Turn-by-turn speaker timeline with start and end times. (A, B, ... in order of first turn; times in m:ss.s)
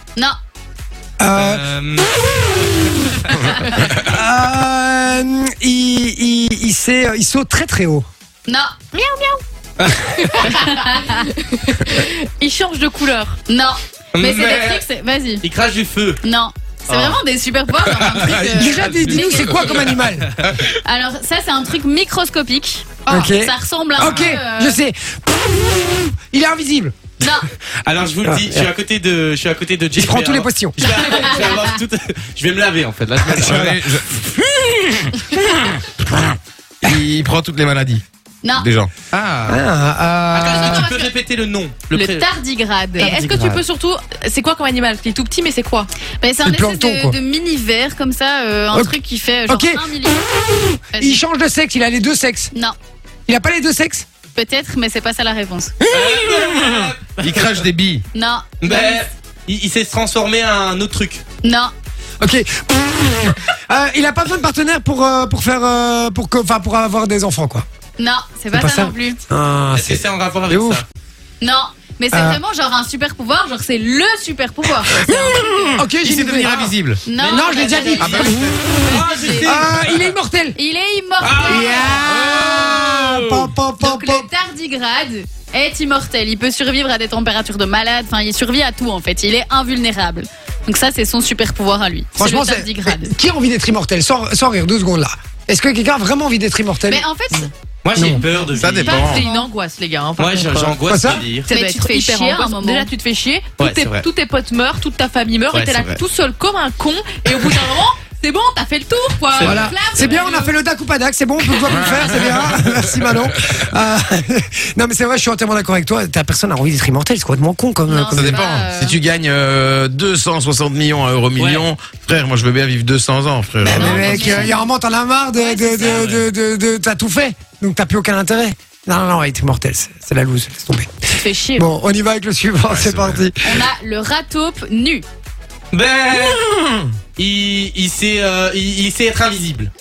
0:01.2-0:01.6 A
0:01.3-0:02.5 B
0:03.9-0:08.1 A
0:08.5-0:08.7 C
0:08.9-0:09.4 D
0:09.8-0:10.5 B
0:10.2-0:13.4 D
0:10.4-0:11.3 C
0:13.5-0:15.4 C
0:14.2-0:14.8 B
0:15.4-0:16.2 B
0:16.2-0:20.0 C
0:16.9-0:17.2 B
0:17.9-0:18.3 B
0:18.3-0:19.8 E
0:18.5-0:20.3 A
0:19.6-0:20.6 B
0:20.8-0:24.8 C
0:23.1-0:27.0 A
0:27.2-0:27.5 C
0:27.8-0:33.7 B
0:28.2-0:28.7 A
0:30.0-0:30.8 A
0:30.8-0:31.7 C
0:33.3-0:38.0 E
0:33.4-0:34.0 A
0:38.6-0:38.9 E
0:39.1-0:39.6 B
0:39.5-0:40.9 A
0:40.3-0:42.2 B
0:41.9-0:43.1 C
0:43.0-0:45.9 D
0:43.0-0:43.6 B
0:46.2-0:50.3 C
0:46.4-0:47.2 A
0:48.7-0:49.0 A
0:49.5-0:52.5 A
0:50.9-0:51.2 C
0:53.3-0:54.1 A
0:54.4-0:55.7 C
0:55.8-0:58.0 E
0:55.9-0:57.6 B
0:58.1-0:59.0 C
0:58.6-1:01.2 B
1:01.4-1:01.7 C
1:02.2-1:07.6 A
1:08.0-1:09.2 C
1:08.5-1:10.8 A
1:09.7-1:10.8 B
1:11.4-1:15.8 C
1:12.1-1:12.4 A
1:14.9-1:17.0 E
1:15.8-1:18.6 A
1:17.1-1:19.6 C
1:17.1-1:20.0 B
1:18.0-1:18.6 E
1:19.4-1:20.6 A
1:20.6-1:22.0 C
1:21.2-1:23.5 B
1:21.4-1:24.3 A
1:22.1-1:23.0 E
1:23.8-1:33.1 C
1:32.2-1:37.0 A
1:36.9-1:37.5 C
1:37.8-1:39.1 B
1:38.0-1:38.2 A
1:38.6-1:39.2 E
1:38.8-1:40.8 D
1:39.1-1:39.5 C
1:40.2-1:41.5 B
1:40.9-1:41.3 A
1:41.4-1:50.5 D
1:41.5-1:42.9 C
1:43.6-1:44.0 B
1:45.5-1:46.0 B
1:49.3-1:49.8 B
1:49.4-1:58.5 A
1:51.7-1:53.3 E
1:57.9-1:59.0 C
1:58.1-2:04.5 E
2:01.4-2:01.7 B
2:03.6-2:10.9 A
2:03.6-2:04.7 C
2:05.4-2:06.2 C
2:05.9-2:06.2 B
2:11.2-2:11.7 C
2:11.6-2:13.4 A
2:12.7-2:13.3 E
2:13.4-2:15.0 C
2:15.7-2:16.5 B
2:16.1-2:16.9 E
2:17.2-2:19.7 B